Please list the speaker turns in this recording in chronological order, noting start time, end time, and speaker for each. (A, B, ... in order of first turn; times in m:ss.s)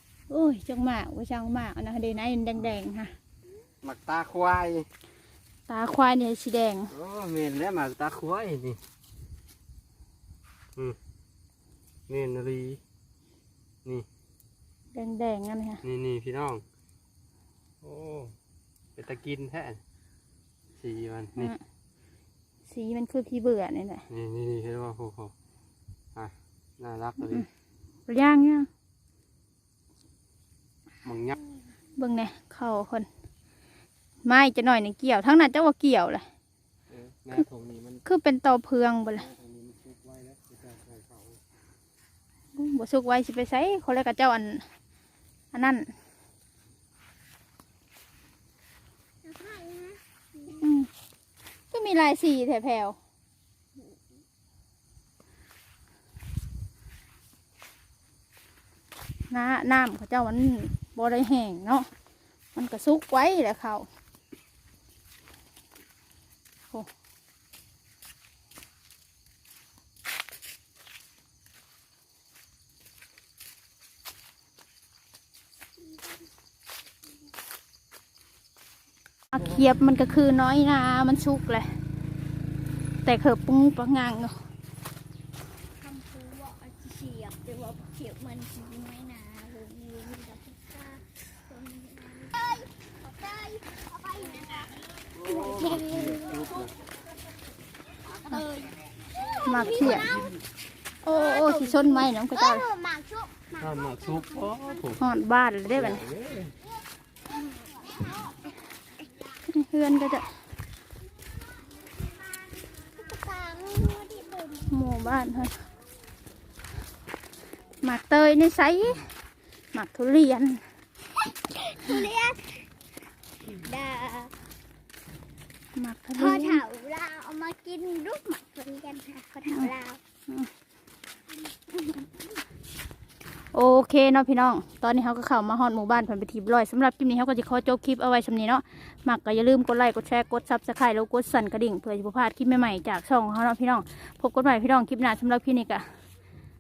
0:00.3-0:03.1 A
0:03.8-0:04.9 B
0:05.7-0:06.9 A
0:06.9-0:08.8 B
0:12.1-0:12.8 B
0:14.9-0:15.8 A
0:15.8-0:16.6 B
0:17.8-0:18.3 B
0:19.0-0:19.8 B
0:20.8-0:21.5 B
0:22.7-0:24.0 A
0:24.1-0:25.3 B
0:26.2-0:27.4 B
0:28.1-0:28.7 A
0:31.0-0:31.4 B
0:32.0-0:33.1 A
0:34.2-0:36.2 A
0:36.9-0:38.0 B
0:38.0-0:39.2 A
0:39.2-0:41.4 B
0:42.6-0:44.6 A
0:45.5-0:45.9 A
0:49.2-0:50.0 C
0:50.5-0:50.9 A
0:51.7-0:53.0 A
0:59.3-1:01.9 A
1:02.5-1:03.9 A
1:19.3-1:21.7 A
1:23.0-1:24.3 A
1:25.7-1:36.7 C
1:35.1-1:36.7 B
1:38.2-1:40.4 C
1:39.4-1:40.2 A
1:41.0-1:42.7 A
1:41.1-1:44.6 C
1:43.6-1:45.0 B
1:45.0-1:46.0 A
1:45.7-1:46.5 B
1:47.3-1:48.5 C
1:49.5-1:50.3 A
1:51.7-1:55.1 C
1:54.7-1:55.5 A
1:57.8-1:59.1 A
1:59.7-2:00.6 A
2:01.5-2:02.7 C
2:03.4-2:04.3 C
2:05.7-2:06.6 A
2:06.2-2:10.0 C
2:13.5-2:25.8 A